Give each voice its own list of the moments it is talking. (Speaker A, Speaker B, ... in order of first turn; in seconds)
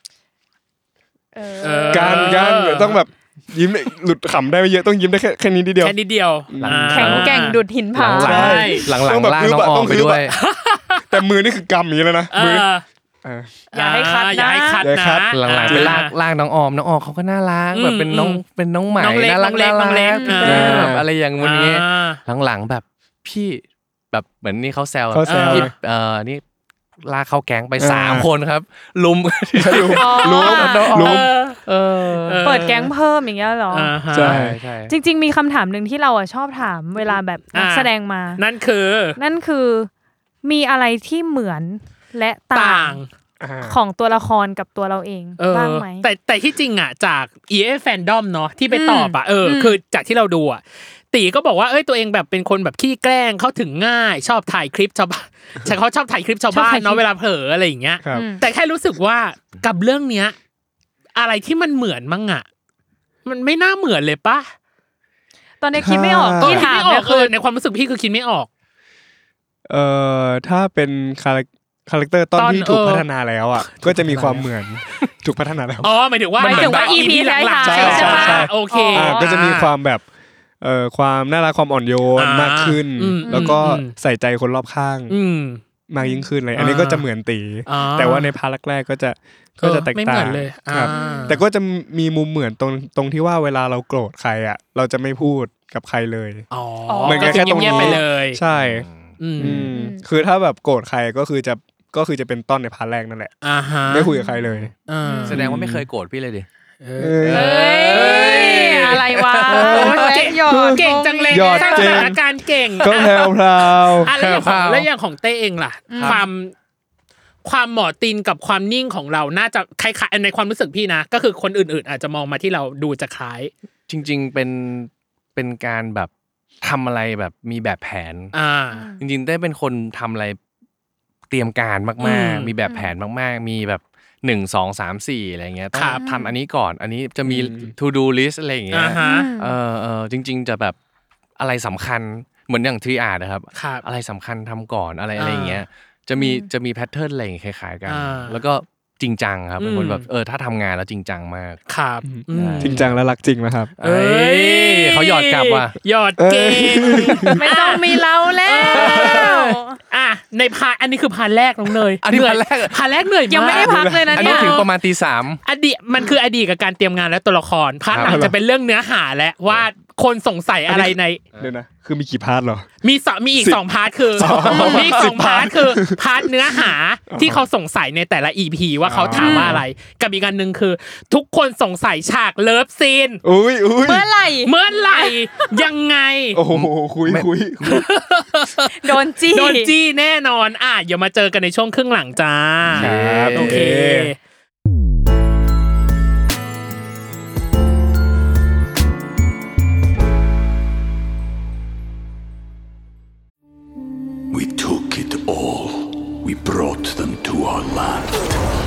Speaker A: 1.4-2.4, 6.9-8.8, 13.7-14.8, 20.1-20.9, 29.9-31.1, 32.4-34.0, 34.9-38.4, 39.2-39.9, 40.4-43.0, 43.6-46.1, 48.7-49.8, 56.5-57.0, 58.1-58.5, 65.6-67.3, 76.4-79.3, 83.2-83.6, 86.0-86.3, 90.8-91.4, 96.9-98.0, 99.4-100.0, 104.1-104.5, 105.0-105.4, 107.3-112.2, 115.9-116.2, 128.7-129.0, 135.9-136.3, 139.0-139.6, 146.2-146.5, 157.3-159.8, 163.3-164.7, 174.5-174.9, 179.2-179.6, 183.8-185.2, 188.8-189.7
Speaker B: 1.6-3.0, 5.8-7.6, 8.2-8.9, 10.4-11.1, 12.3-12.8, 13.7-16.1, 17.7-18.4, 19.0-22.2, 25.2-25.7, 31.0-31.6, 32.2-32.9, 33.7-34.4, 37.5-39.2, 42.5-43.1, 45.4-60.4, 61.2-62.5, 63.2-64.5, 66.4-68.5, 72.4-73.1, 73.6-74.5, 75.8-79.7, 82.2-83.9, 85.1-85.6, 86.5-87.0, 87.7-88.3, 89.6-91.4, 96.5-98.4, 99.2-99.7, 103.4-104.1, 104.9-105.4, 106.8-109.0, 109.5-116.5, 117.4-123.5, 128.3-128.8, 132.0-132.5, 135.7-136.0, 138.7-139.3, 143.5-143.8, 145.2-145.6, 147.9-148.4, 149.6-150.1, 151.7-152.8, 153.8-157.9, 158.4-159.3, 159.9-164.6, 165.4-171.2, 172.8-183.2, 184.4-186.4, 187.6-194.2
Speaker C: 1.9-6.0, 6.5-7.1, 8.0-10.3, 11.1-12.7, 13.2-13.5, 14.8-15.9, 20.4-21.1, 25.1-25.7, 27.8-28.3, 29.6-31.3, 34.1-34.6, 43.4-43.8, 65.7-66.7, 69.7-75.9, 77.6-80.0, 80.6-85.1, 85.9-96.5, 97.0-103.3, 103.9-104.7, 105.3-105.9, 107.0-107.5, 109.5-112.2, 112.8-114.1, 137.3-137.7, 152.0-153.7, 156.2-157.4, 163.5-164.4, 168.1-168.3, 170.7-172.7, 173.4-176.3, 177.1-177.4, 178.8-179.6, 183.2-184.1, 186.3-187.8, 192.8-194.1
Speaker D: 6.6-10.3, 15.3-26.4, 27.0-32.4, 34.2-35.0, 76.5-77.1, 98.5-99.2, 105.3-106.5, 107.3-110.1, 114.1-114.9, 116.0-116.2, 123.9-126.1, 126.6-128.3, 129.0-130.4, 131.3-140.8, 141.4-151.6, 152.3-152.9, 153.8-155.8, 158.9-159.6, 162.0-162.8, 164.1-165.4, 167.9-168.2, 186.5-187.8, 192.7-193.7
Speaker E: 204.3-208.4